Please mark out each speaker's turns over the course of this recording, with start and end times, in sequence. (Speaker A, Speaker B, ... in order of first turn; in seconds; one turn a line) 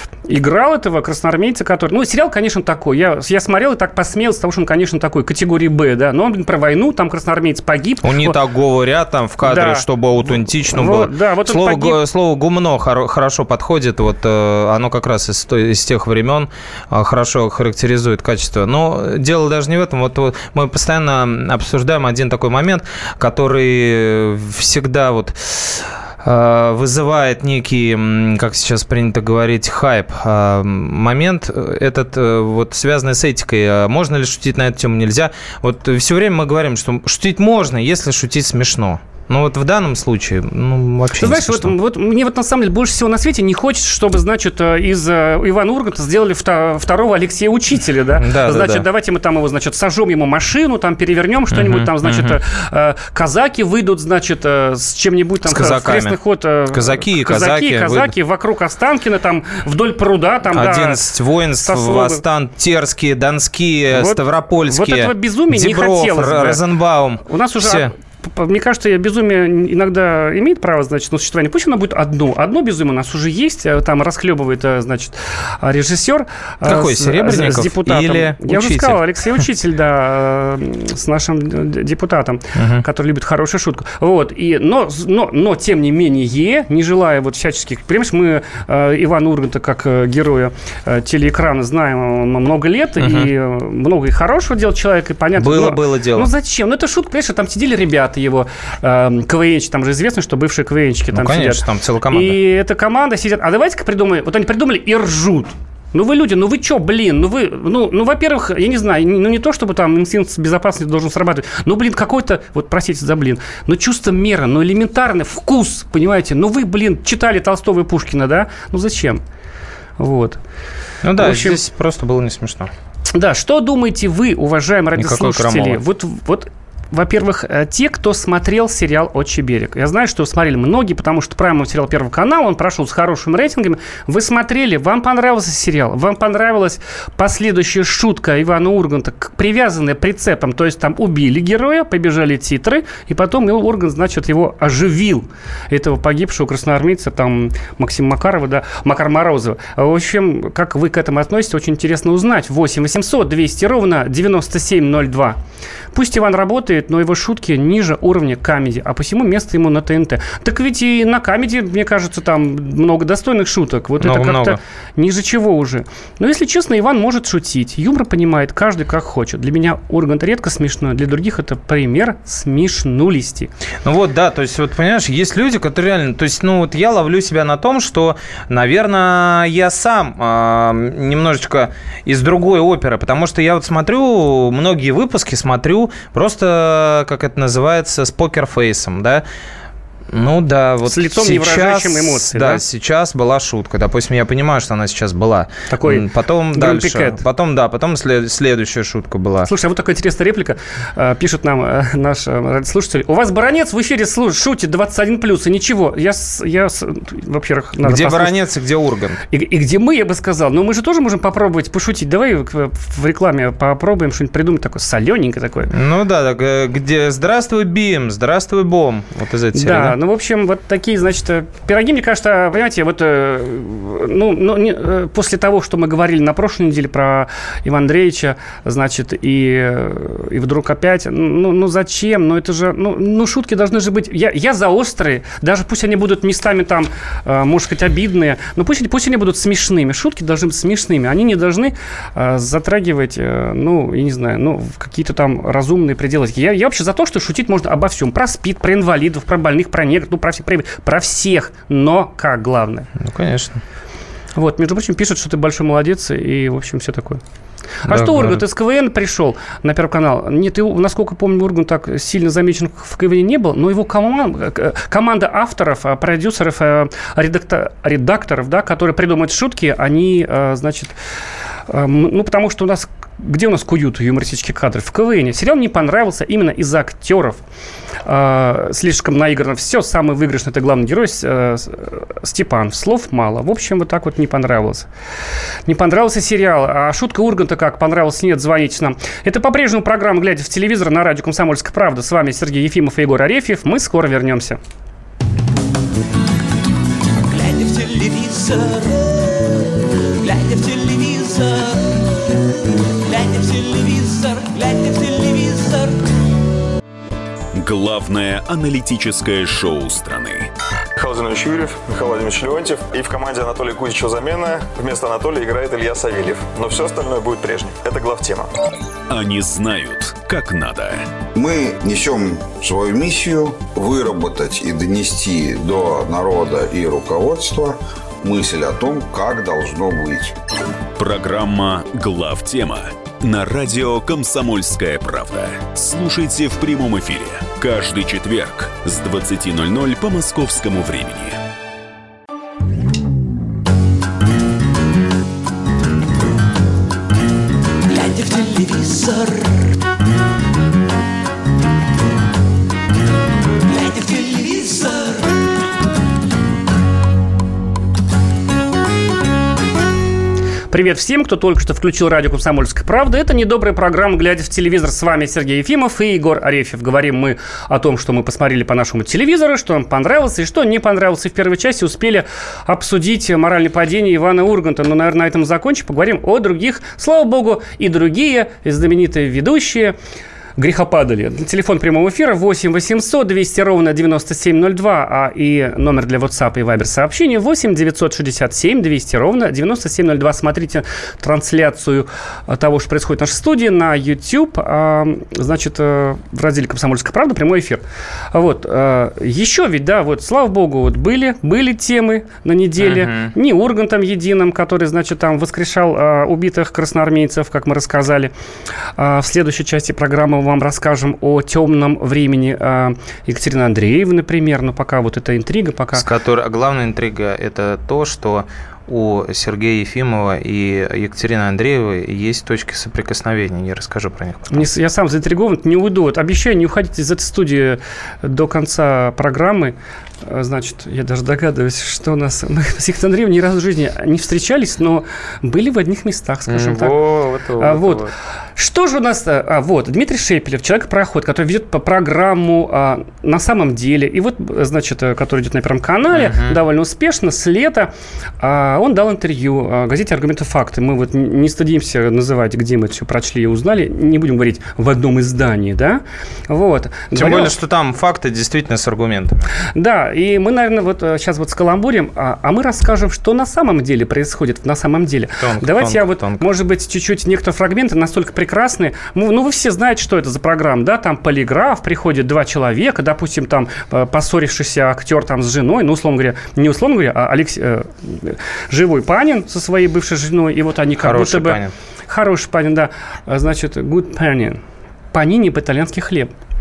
Speaker A: 0.3-8.4
Speaker B: 8.0-41.7
Speaker A: 9.4-12.0
Speaker A: 41.2-61.0
Speaker B: 48.2-48.9
Speaker B: 51.5-52.4
Speaker B: 55.4-56.2
Speaker B: 56.7-58.1
Speaker B: 60.5-67.9
Speaker A: 61.6-62.2
Speaker A: 63.9-66.6
Speaker A: 67.2-119.2
Speaker B: 76.6-79.0
Speaker B: 82.5-82.8
Speaker B: 93.0-93.3
Speaker B: 95.4-96.3
Speaker B: 101.1-102.4
Speaker A: 120.0-120.4
Speaker B: 121.0-122.7
Speaker A: 121.2-121.6
Speaker A: 123.1-155.4
Speaker B: 125.0-125.8
Speaker A: 155.9-173.5
Speaker B: 164.0-164.6
Speaker B: 173.8-189.2
Speaker B: 190.1-199.5
Speaker A: 190.9-192.6
Speaker A: 195.7-197.2
Speaker A: 199.4-208.3
Speaker B: 207.8-209.2
Speaker A: 209.3-215.7
Speaker B: 215.7-220.0
Speaker A: 219.6-252.9
Speaker B: 253.0-253.6
Speaker A: 254.3-257.2
Speaker A: 257.8-270.9
Speaker B: 257.9-258.4
Speaker A: 271.7-277.4
Speaker A: 278.1-284.9
Speaker A: 285.7-294.6
Speaker C: 307.5-310.5
Speaker D: 311.0-318.5
Speaker C: 319.1-321.1
Speaker E: 321.3-330.4
Speaker C: 331.0-341.4
Speaker A: 360.7-379.9
Speaker A: 380.6-408.3
Speaker B: 402.8-403.3
Speaker A: 409.0-416.1
Speaker B: 415.9-424.6
Speaker A: 424.5-436.9
Speaker B: 436.5-438.1
Speaker A: 437.6-457.5
Speaker B: 446.1-446.6
Speaker B: 457.1-459.5
Speaker A: 459.8-484.6
Speaker B: 465.4-466.5
Speaker B: 481.0-481.7
Speaker A: 485.1-486.3